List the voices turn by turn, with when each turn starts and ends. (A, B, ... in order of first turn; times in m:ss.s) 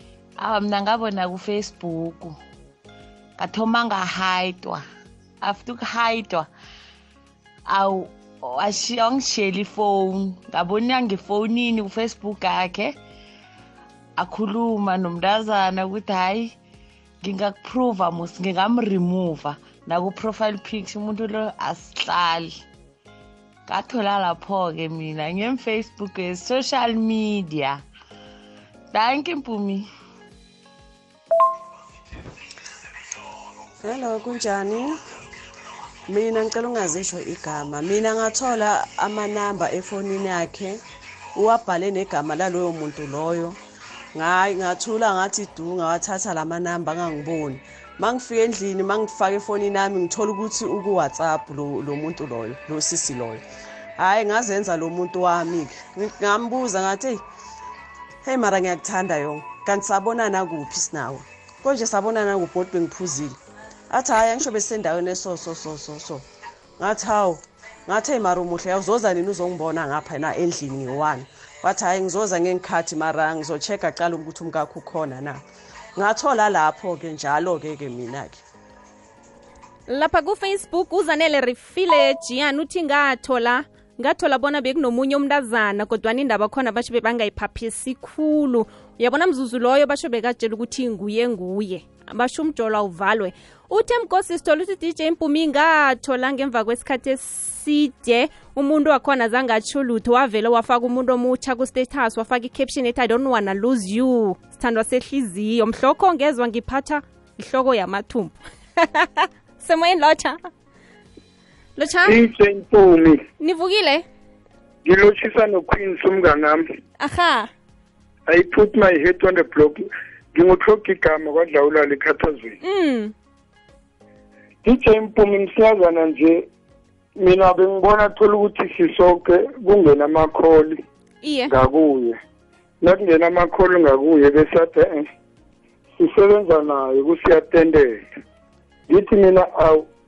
0:00.4-0:02.4 A
0:03.4-0:04.8 A
0:05.4-0:06.5 A
0:07.6-0:13.0 A
0:14.2-0:16.6 A
0:17.2-0:22.6 A
0:23.7-0:27.8 A
0:28.9-0:29.9 A
0:33.8-0:34.9 B
0:36.1-0:40.8 B
0:41.4-0:43.6 B
0:44.1-0:53.4 B
0:54.0-0:57.2 B
0:58.2-1:03.4 B
1:03.9-1:06.2 B
1:06.8-1:15.4 B
1:16.0-1:18.4 B
1:19.9-1:50.4 C
1:51.8-1:52.2 C
1:52.0-1:53.2 D
1:53.4-1:54.0 C
1:54.8-1:56.6 D
1:57.0-1:57.5 C
1:58.3-1:59.8 D
2:00.3-2:02.6 D
2:02.6-2:03.1 C
2:04.6-2:06.4 D
2:07.2-2:10.8 D
2:11.2-2:11.5 C
2:11.5-2:12.2 D
2:12.8-2:15.0 D
2:16.0-2:18.0 D
2:18.9-2:19.8 D